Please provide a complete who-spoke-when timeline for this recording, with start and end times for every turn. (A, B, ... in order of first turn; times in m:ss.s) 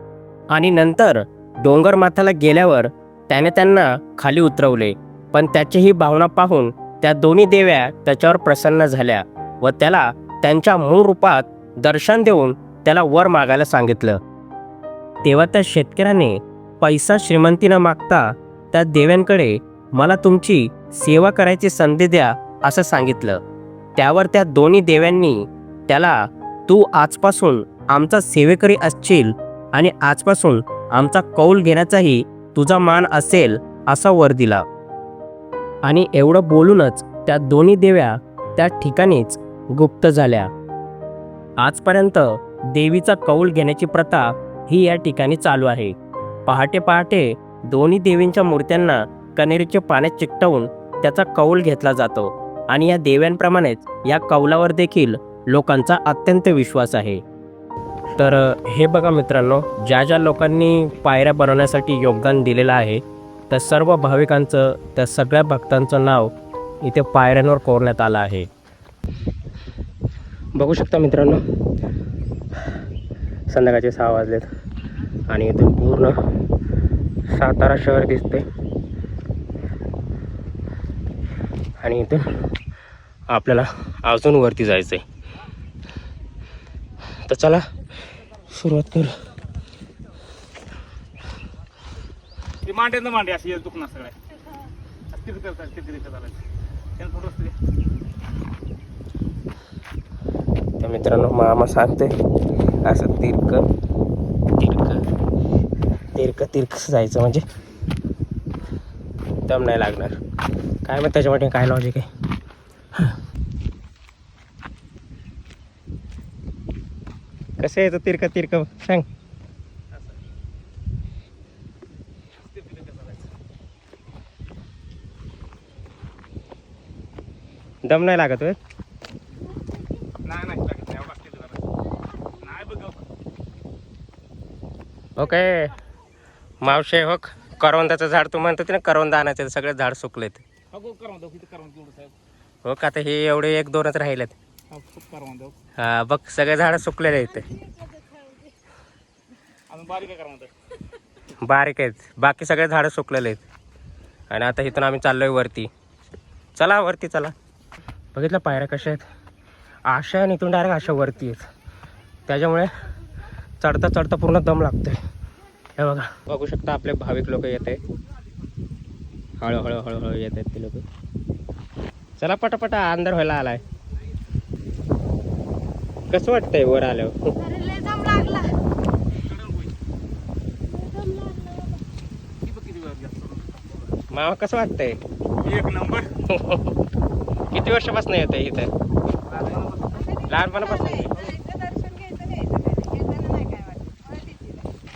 0:00.5-0:14.2 A
0:15.2-0:23.4 A
0:24.0-0:34.6 A
0:35.8-0:40.5 A
0:41.6-0:45.9 A
0:46.5-0:57.2 A
0:58.2-1:08.5 A
1:10.6-1:11.4 A
1:13.5-1:14.5 A
1:15.3-1:16.2 A
1:17.3-1:18.4 A
1:21.8-1:22.3 A
1:23.3-1:25.0 A
1:27.3-1:27.6 A
1:28.5-1:29.1 A
1:32.6-1:34.1 B
1:35.2-1:36.4 B
1:37.1-1:37.5 B
1:40.8-1:42.1 A
1:42.8-1:43.6 A
1:44.6-1:45.0 A
1:46.2-1:47.4 A
1:49.5-1:50.2 A
1:50.8-1:52.1 A
1:57.6-1:59.0 A
2:07.8-2:08.6 A
2:10.4-2:11.5 B
2:15.2-2:15.7 A
2:16.6-2:20.4 A
2:20.8-2:22.1 B
2:22.6-2:24.4 A
2:25.0-2:25.5 B
2:25.8-2:27.6 A
2:29.8-2:30.4 B
2:31.4-2:33.4 A
2:34.3-2:35.7 A
2:36.6-2:37.3 A
2:38.1-2:39.1 A
2:39.9-2:41.4 A
2:42.3-2:42.7 A
2:43.6-2:45.0 A
2:45.8-2:47.8 A
2:49.4-2:50.8 A
2:52.2-2:53.6 A
2:56.1-2:57.4 A
2:57.4-2:58.6 C
3:00.7-3:01.8 C
3:02.6-3:03.4 B
3:04.1-3:05.0 A
3:05.6-3:06.0 B
3:06.2-3:06.7 A
3:07.5-3:08.7 A
3:10.3-3:11.2 A
3:11.2-3:14.6 C